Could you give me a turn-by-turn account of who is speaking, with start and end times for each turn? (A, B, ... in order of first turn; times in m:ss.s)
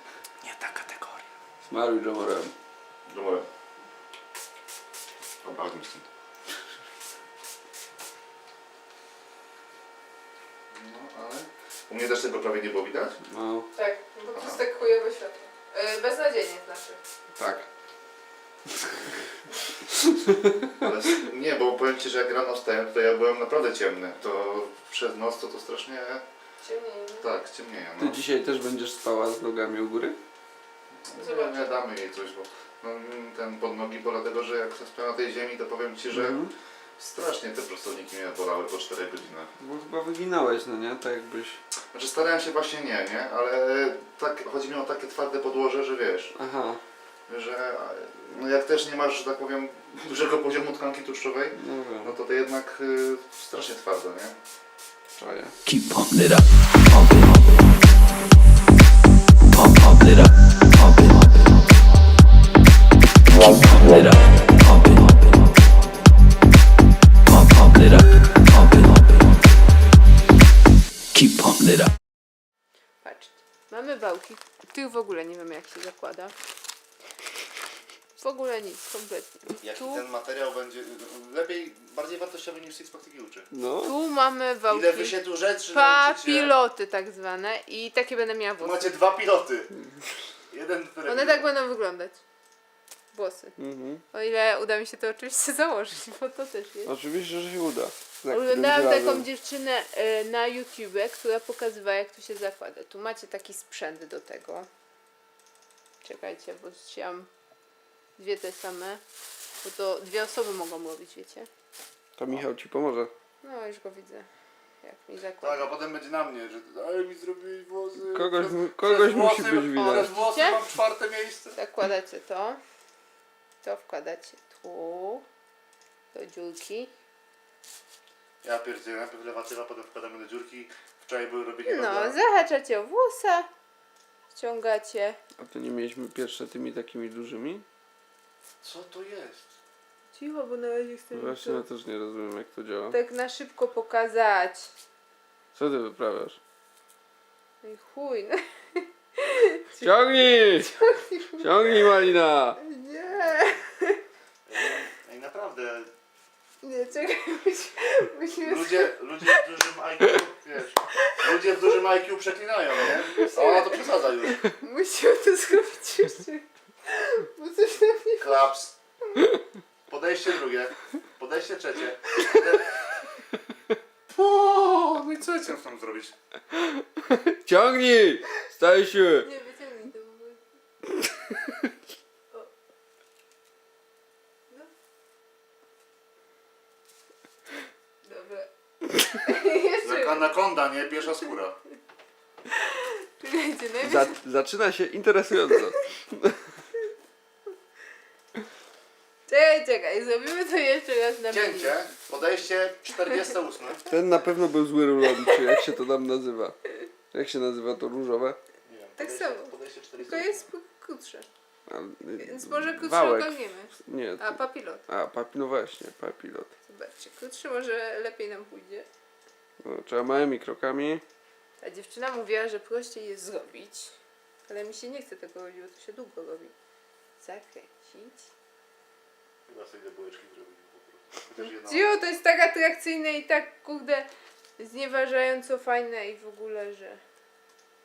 0:00.4-0:01.3 A
0:01.7-0:02.5 B
0:03.1-0:03.5 A
0:05.4-0:06.1 A
0:10.7-0:13.2 A
0:13.3-0:13.7 B
0:13.7-0:17.0 C
0:14.3-0:14.6 A
0:17.4-0:17.7 B
0:20.0-0:20.7 B
0:20.8-0:26.2 A
0:26.6-0:27.3 C
0:27.2-0:28.2 A
0:28.0-0:30.2 B
0:31.0-0:36.4 A
0:31.2-0:31.8 C
0:36.1-0:36.5 B
0:37.0-0:39.5 A
0:39.6-0:41.6 B
0:41.9-0:46.3 A
0:46.4-0:46.8 B
0:47.3-0:54.3 A
0:51.5-0:52.1 B
0:55.2-0:55.6 B
0:55.6-0:57.9 D
0:59.5-1:01.8 D
1:03.3-1:05.7 D
1:07.2-1:09.5 D
1:11.1-1:11.9 D
1:13.0-1:16.3 C
1:18.2-1:20.0 C
1:19.6-1:23.5 A
1:23.5-1:23.9 B
1:23.8-1:28.9 C
1:24.7-1:26.5 A
1:28.6-1:29.7 A
1:30.5-1:31.5 A
1:31.1-1:32.2 C
1:33.1-1:33.6 C
1:33.6-1:34.0 B
1:34.1-1:36.9 C
1:36.9-1:39.2 B
1:38.3-1:44.7 C
1:46.0-1:47.3 C
1:48.2-1:49.0 C
1:49.6-1:51.5 C
1:52.2-1:53.1 B
1:53.4-1:54.3 C
1:54.8-1:55.7 C
1:55.4-2:01.6 A
1:58.1-2:00.1 B
2:00.2-2:00.6 C
2:01.5-2:02.6 C
2:03.6-2:05.2 C
2:06.1-2:06.9 C
2:08.4-2:12.2 A
2:11.6-2:13.5 C
2:14.3-2:15.2 C
2:15.4-2:17.6 B
2:18.6-2:19.5 A
2:20.1-2:21.6 C
2:21.1-2:23.0 B
2:22.9-2:24.7 C
2:25.5-2:26.4 B
2:27.6-2:31.7 C
2:29.8-2:30.7 B
2:31.4-2:32.6 B
2:32.6-2:34.0 C
2:33.1-2:33.6 A
2:34.5-2:35.9 A
2:36.6-2:39.4 C
2:38.4-2:44.4 A
2:43.1-2:48.4 C
2:48.2-2:48.8 A
2:49.9-2:52.7 A
2:54.1-2:56.1 A
2:56.6-2:59.3 B
2:59.2-3:00.4 C
3:08.0-3:10.3 C
3:09.8-3:11.6 A
3:12.5-3:14.1 C
3:13.8-3:16.4 B
3:19.3-3:21.8 C
3:21.3-3:23.9 A
3:23.9-3:26.6 B
3:27.1-3:28.4 B
3:28.6-3:30.5 A
3:29.0-3:31.3 C
3:31.7-3:36.5 B
3:32.2-3:34.8 C
3:36.7-3:38.9 C
3:39.6-3:41.0 B
3:41.6-3:44.0 C
3:44.5-3:46.5 C
3:47.2-3:48.3 C
3:49.5-3:52.0 A
3:51.6-3:57.0 C